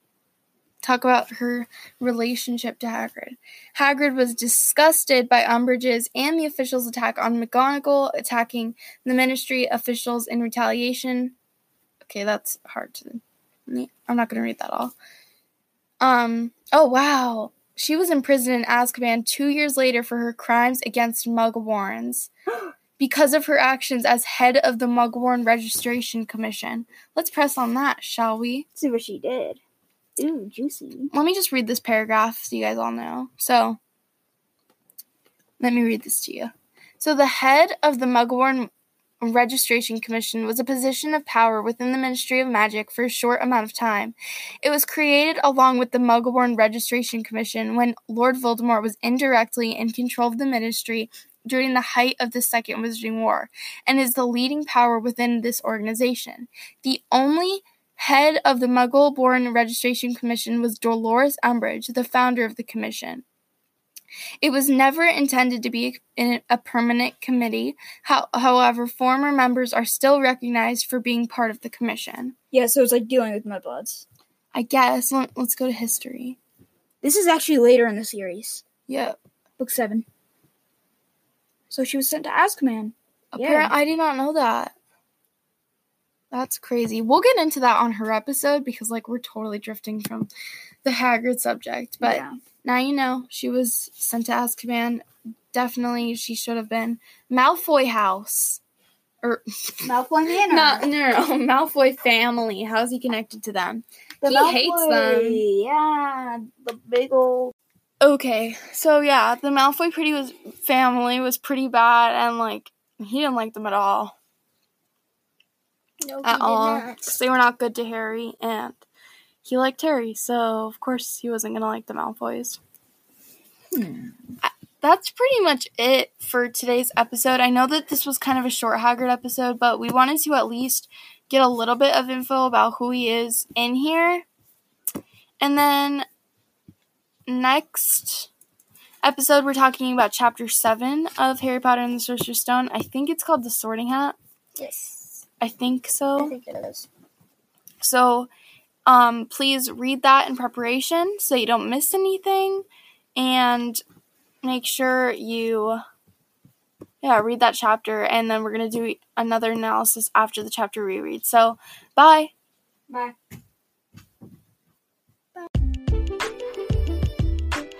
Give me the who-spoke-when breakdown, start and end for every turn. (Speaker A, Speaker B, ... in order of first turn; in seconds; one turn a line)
Speaker A: 0.8-11.3
Speaker A: 12.0-14.9
Speaker A: 16.0-22.3
Speaker A: 23.0-28.6
Speaker B: 28.7-29.6
Speaker B: 30.2-31.1
Speaker A: 31.1-33.8
Speaker A: 35.6-63.2
Speaker A: 64.4-72.3
Speaker B: 72.5-74.0
Speaker A: 74.5-76.4
Speaker B: 77.0-78.6
Speaker A: 78.9-79.2
Speaker B: 79.6-80.0
Speaker B: 81.7-83.7
Speaker A: 83.3-84.7
Speaker A: 86.3-90.3
Speaker A: 90.8-98.6
Speaker B: 92.0-92.3
Speaker A: 99.2-99.9
Speaker B: 99.8-100.8
Speaker A: 100.5-105.4
Speaker B: 104.2-107.5
Speaker A: 108.0-114.1
Speaker C: 116.0-117.1
Speaker A: 116.2-118.8
Speaker A: 119.4-122.6
Speaker B: 123.7-124.2
Speaker A: 124.4-134.2
Speaker A: 135.4-136.1
Speaker A: 137.3-138.3
Speaker A: 139.0-144.2
Speaker C: 144.6-145.2
Speaker A: 145.4-146.3
Speaker C: 146.2-146.9
Speaker A: 147.8-148.3
Speaker A: 148.8-153.8
Speaker A: 154.4-155.8
Speaker A: 157.0-162.3
Speaker B: 162.9-163.1